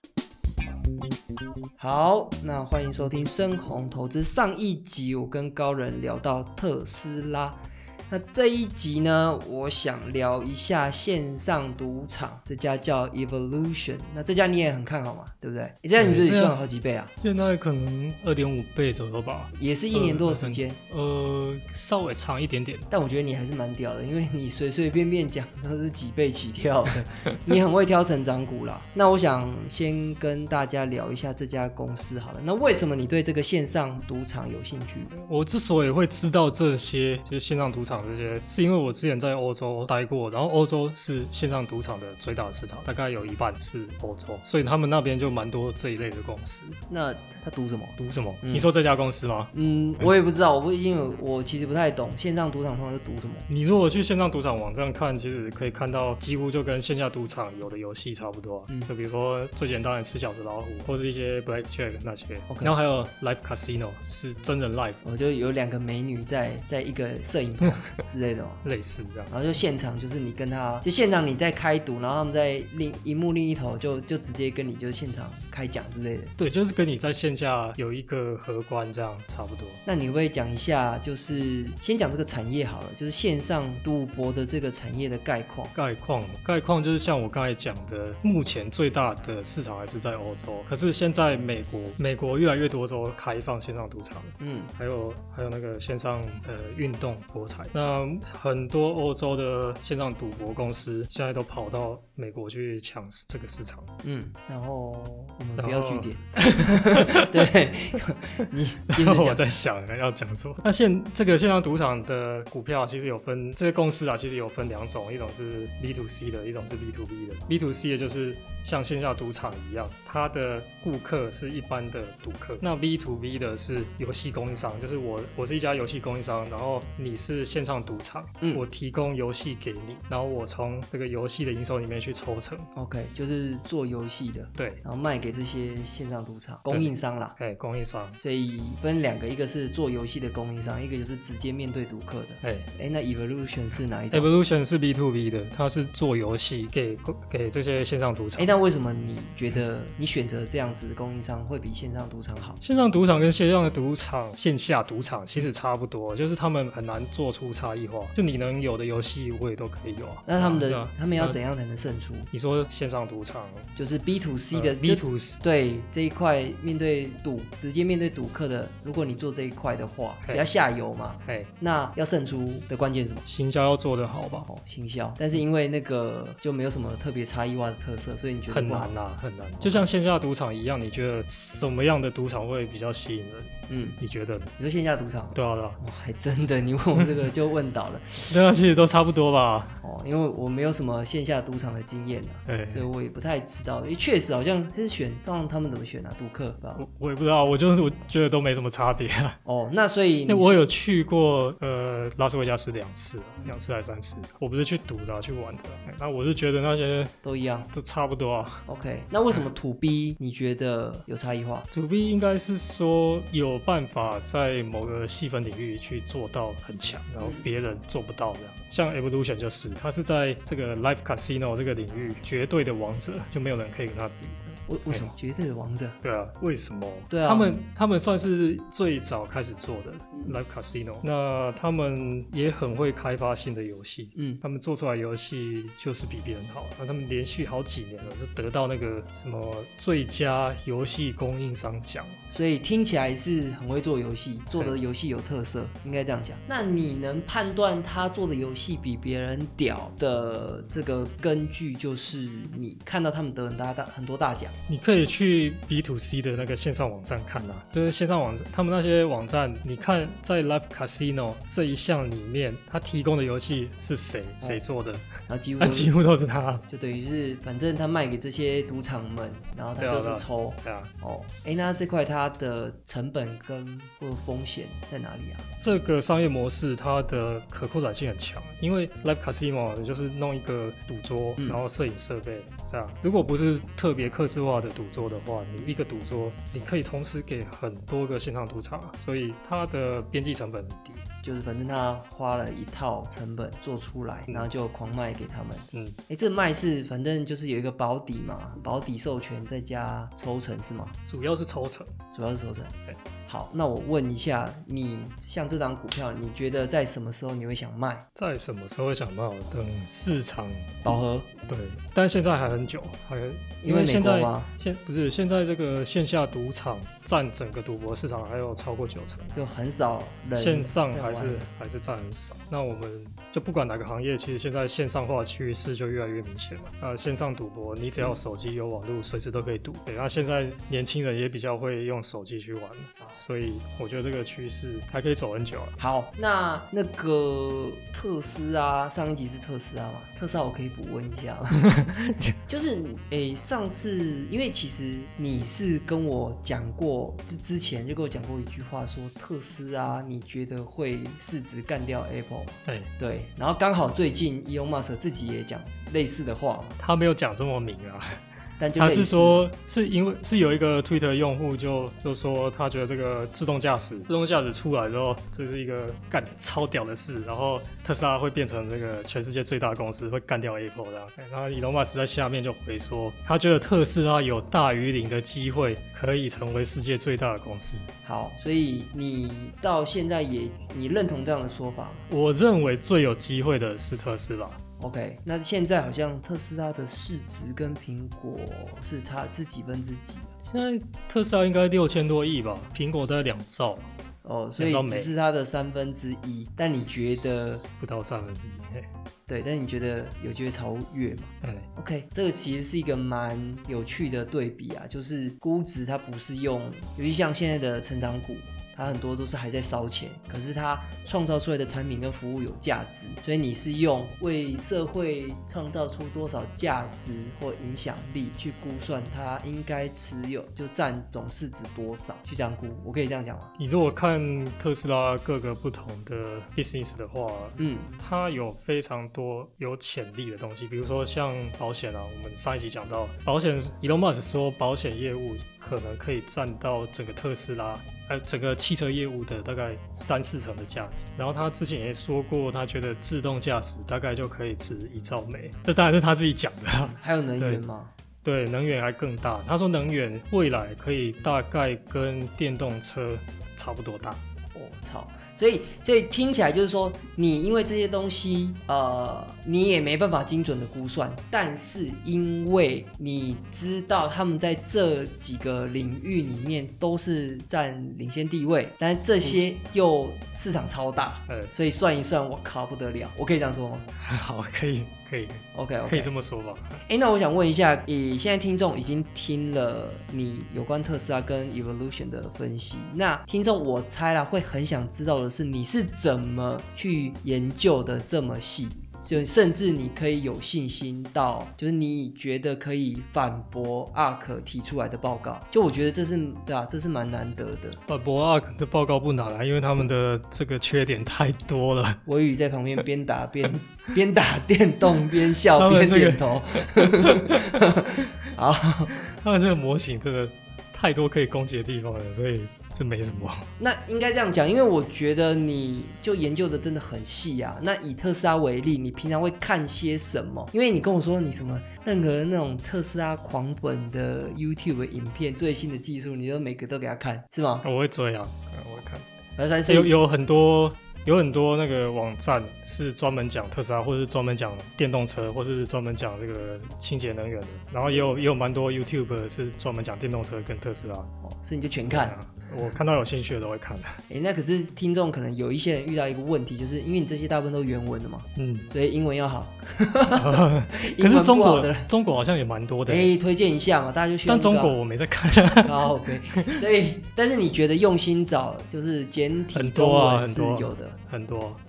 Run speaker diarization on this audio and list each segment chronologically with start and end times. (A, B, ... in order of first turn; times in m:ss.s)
0:01.8-0:17.1 A
0:16.0-0:16.6 B
0:17.2-0:22.9 B
0:19.5-0:20.8 A
0:22.9-0:35.1 A
0:35.1-0:46.8 B
0:46.9-0:48.7 A
0:48.0-0:49.5 B
0:49.5-0:53.5 A
0:53.5-1:05.0 B
1:02.5-1:02.7 A
1:05.0-1:08.6 A
1:08.6-1:09.3 B
1:09.3-1:16.3 A
1:16.4-1:19.8 B
1:19.8-1:25.7 A
1:25.7-1:43.9 B
1:34.4-1:34.7 A
1:44.0-1:49.5 A
1:45.6-1:47.5 B
1:48.9-2:12.7 B
2:12.8-2:17.4 A
2:14.6-2:14.8 B
2:16.7-2:18.2 B
2:18.2-2:24.3 A
2:22.4-2:22.7 B
2:24.1-2:28.5 B
2:28.4-2:32.6 A
2:32.6-2:41.4 B
2:40.3-2:42.3 A
2:42.3-2:43.7 B
2:43.8-2:53.2 A
2:44.5-2:45.4 B
2:50.2-2:50.5 B
2:51.2-2:51.5 B
2:53.2-2:54.5 B
2:54.4-2:58.9 A
2:58.5-3:04.5 B
2:59.6-2:59.9 A
3:03.7-3:04.0 A
3:04.6-3:08.3 A
3:05.3-3:05.8 B
3:08.3-3:09.8 B
3:09.8-3:16.8 A
3:12.4-3:12.9 B
3:16.8-3:19.4 B
3:19.4-3:20.7 A
3:20.3-3:27.1 B
3:27.2-3:27.7 A
3:27.7-3:28.6 B
3:28.7-3:31.7 A
3:31.7-3:45.1 B
3:44.7-3:46.0 A
3:46.0-4:02.2 B
3:47.1-3:47.5 A
3:54.2-3:54.4 A
4:02.3-4:14.5 A
4:14.7-4:25.1 B
4:25.3-4:25.9 A
4:25.6-4:26.6 B
4:26.7-4:35.4 A
4:29.8-4:30.9 B
4:35.6-4:51.0 B
4:51.2-5:00.9 A
4:55.7-4:56.0 B
5:01.0-5:02.0 B
5:02.1-5:02.7 A
5:03.2-5:08.0 A
5:08.1-5:10.9 B
5:10.8-5:11.3 A
5:11.5-5:19.3 B
5:13.6-5:14.5 A
5:19.3-5:21.5 A
5:20.3-5:35.8 B
5:35.8-5:41.6 A
5:41.5-5:42.4 B
5:42.5-5:56.8 A
5:56.8-5:58.2 B
5:58.6-5:59.5 A
5:58.8-6:17.9 B
6:18.0-6:22.0 A
6:22.1-6:24.6 B
6:24.8-6:30.3 A
6:30.4-6:33.9 B
6:34.2-6:37.6 A
6:34.6-6:35.1 B
6:36.8-6:38.9 B
6:39.3-7:03.5 A
6:41.4-6:41.7 B
7:03.6-7:27.6 B
7:07.6-7:07.9 A
7:26.9-7:27.9 A
7:28.2-7:34.2 B
7:34.5-7:53.9 A
7:51.3-7:51.5 B
7:54.0-7:56.8 B
7:55.5-7:56.1 A
7:56.9-8:17.8 A
8:17.9-8:22.0 B
8:22.0-8:28.9 A
8:25.5-8:28.0 B
8:29.0-8:33.5 B
8:33.6-8:47.6 A
8:47.6-8:49.1 B
8:49.4-8:49.9 A
8:49.6-9:01.1 B
8:57.8-8:58.1 A
9:01.2-9:02.2 A
9:01.9-9:04.0 B
9:04.1-9:11.9 A
9:08.4-9:08.7 B
9:10.1-9:13.1 B
9:12.9-9:14.8 A
9:14.2-9:16.6 B
9:15.6-9:21.0 A
9:19.5-9:21.6 B